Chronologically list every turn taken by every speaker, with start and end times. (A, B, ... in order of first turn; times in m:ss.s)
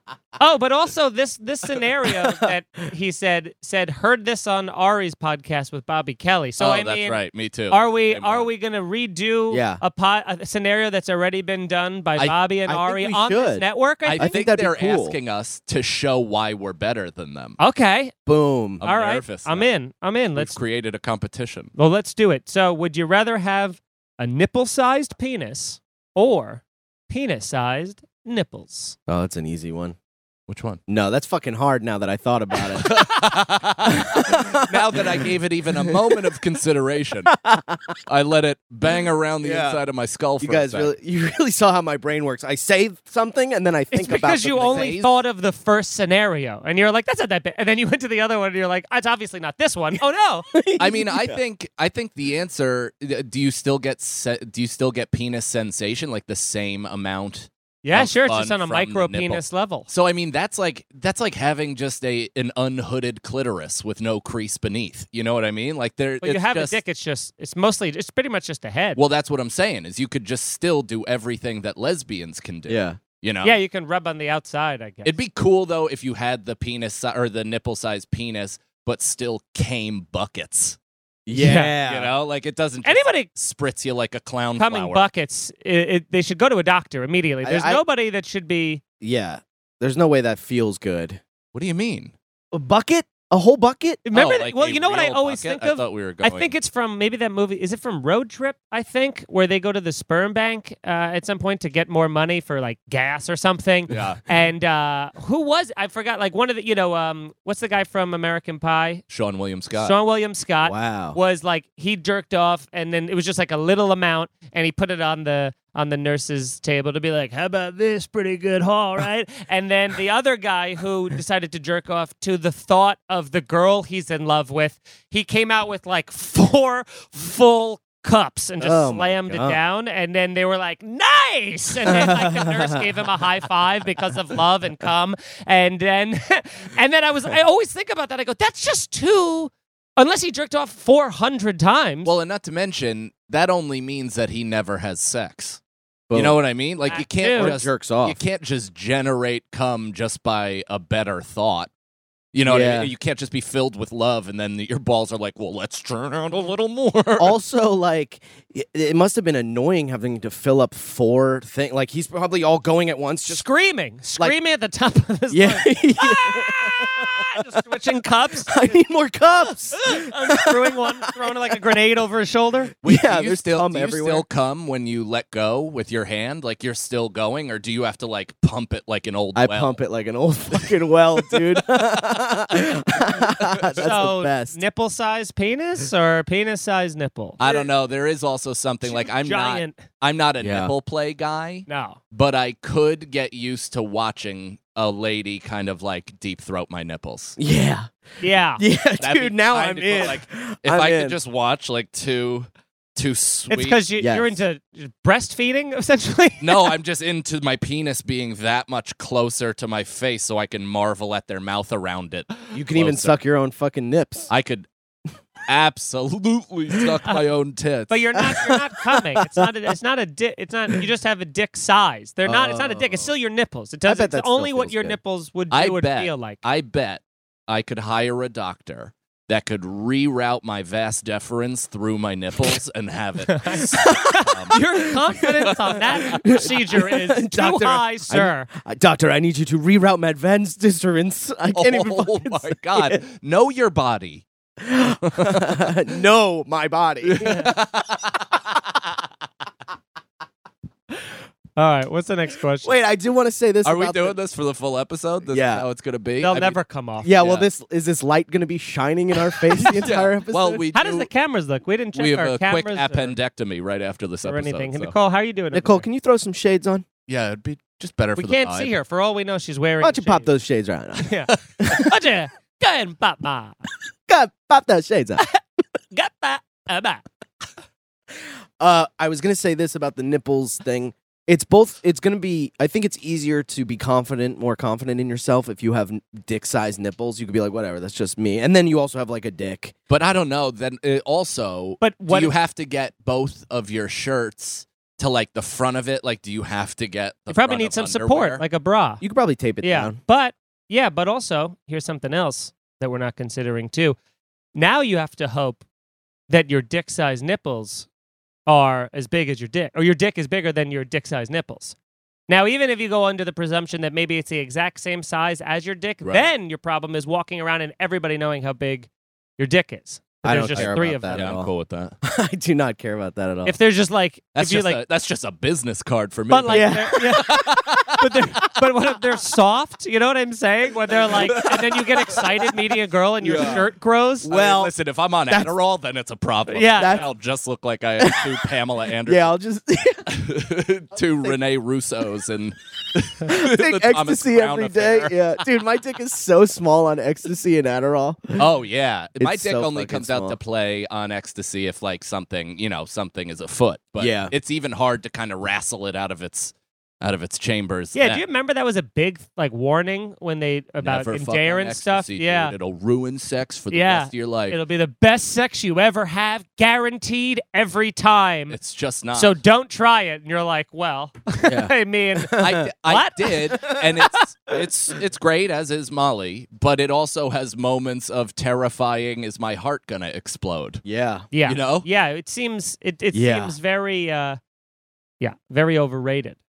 0:00.4-0:14.3 A
0:06.6-0:08.5 B
0:09.5-0:09.8 C
0:12.6-0:15.2 C
0:14.1-0:17.6 B
0:17.6-0:18.1 A
0:18.2-0:18.8 C
0:18.8-0:19.7 B
0:18.8-0:20.6 A
0:20.4-0:21.7 B
0:21.8-0:29.0 A
0:29.1-0:30.0 C
0:30.5-0:30.8 B
0:30.9-0:33.0 C
0:32.7-0:37.3 B
0:33.8-0:36.2 C
0:37.3-0:38.0 C
0:38.0-0:40.9 B
0:39.4-0:39.8 C
0:40.4-0:45.0 C
0:43.9-0:50.5 A
0:44.6-0:45.1 B
0:50.5-0:51.4 C
0:50.8-1:06.8 B
0:57.8-0:59.9 A
1:06.2-1:09.0 A
1:09.0-1:13.6 B
1:12.7-1:13.0 C
1:13.4-1:15.1 A
1:15.0-1:20.8 B
1:21.2-1:22.1 C
1:21.3-1:21.8 A
1:21.8-1:25.0 B
1:22.8-1:23.3 A
1:24.6-1:28.8 A
1:27.4-1:27.8 C
1:29.0-1:31.2 C
1:31.5-1:32.1 B
1:32.5-1:34.0 C
1:34.0-1:49.0 A
1:34.1-1:36.5 B
1:43.9-1:44.2 B
1:49.1-1:49.9 B
1:49.7-2:22.1 A
1:50.6-1:51.2 C
2:08.6-2:09.6 C
2:11.9-2:12.8 C
2:22.0-2:25.6 B
2:26.1-2:26.4 C
2:26.1-2:31.7 B
2:26.9-2:27.6 A
2:27.4-2:28.2 C
2:32.3-2:37.4 B
2:32.4-2:32.9 C
2:37.2-2:43.4 C
2:43.2-2:48.6 A
2:45.3-2:47.4 C
2:48.4-2:50.9 C
2:49.7-2:52.7 A
2:52.8-2:54.2 C
2:52.8-2:59.8 B
2:59.3-3:04.6 C
3:03.4-3:03.9 B
3:03.7-3:07.6 A
3:07.4-3:17.4 B
3:08.8-3:09.8 A
3:10.4-3:10.7 C
3:11.7-3:12.0 A
3:17.4-3:17.9 C
3:18.2-3:18.6 A
3:18.6-3:21.2 C
3:19.0-3:23.8 B
3:23.5-3:26.7 A
3:24.0-3:24.4 C
3:26.4-3:33.2 B
3:32.5-3:34.3 C
3:34.3-3:34.7 B
3:35.5-3:38.2 B
3:37.9-3:46.4 A
3:38.3-3:39.4 C
3:42.2-3:43.1 C
3:43.8-3:45.0 C
3:45.5-3:54.6 B
3:53.3-3:58.5 A
3:53.6-4:03.0 C
4:01.5-4:04.2 B
4:04.6-4:07.5 C
4:05.0-4:05.7 B
4:07.0-4:08.4 B
4:11.6-4:12.7 A
4:12.6-4:14.2 C
4:13.6-4:16.6 B
4:15.3-4:15.6 C
4:16.2-4:17.1 A
4:17.0-4:20.6 C
4:17.2-4:17.5 B
4:19.5-4:21.1 B
4:20.7-4:23.2 A
4:21.9-4:24.9 B
4:24.2-4:25.9 A
4:25.5-4:26.8 C
4:27.1-4:28.7 B
4:28.2-4:30.3 A
4:29.8-4:31.9 C
4:31.0-4:33.6 A
4:34.1-4:35.2 C
4:35.9-4:37.0 A
4:38.6-4:49.7 C
4:49.9-4:58.4 B
4:51.8-4:52.3 A
4:57.3-4:59.0 A
4:59.0-5:00.0 C
4:59.6-5:04.0 A
5:04.5-5:05.6 A
5:06.3-5:07.9 A
5:08.4-5:11.7 A
5:12.3-5:21.3 A
5:16.0-5:16.3 B
5:20.2-5:21.5 C
5:20.5-5:21.9 B
5:22.0-5:23.6 C
5:23.4-5:24.8 A
5:24.3-5:28.0 B
5:26.3-5:34.3 A
5:26.5-5:28.0 C
5:31.1-5:32.4 B
5:33.2-5:33.6 B
5:34.2-5:34.7 C
5:34.3-5:39.3 B
5:35.3-5:35.6 C
5:36.5-5:37.0 A
5:36.7-5:37.1 C
5:38.0-5:38.5 C
5:39.0-5:40.1 C
5:40.1-5:45.4 B
5:43.2-5:48.5 C
5:48.4-5:58.2 B
5:49.2-5:50.4 C
5:54.0-5:54.3 C
5:57.9-6:02.5 A
6:00.8-6:04.6 B
6:03.7-6:08.6 A
6:08.5-6:09.4 B
6:09.1-6:13.4 A
6:11.4-6:12.7 C
6:12.4-6:20.8 B
6:13.5-6:14.0 C
6:20.8-6:21.3 C
6:21.3-6:24.4 A
6:21.4-6:21.9 B
6:23.1-6:23.5 C
6:25.2-6:26.4 A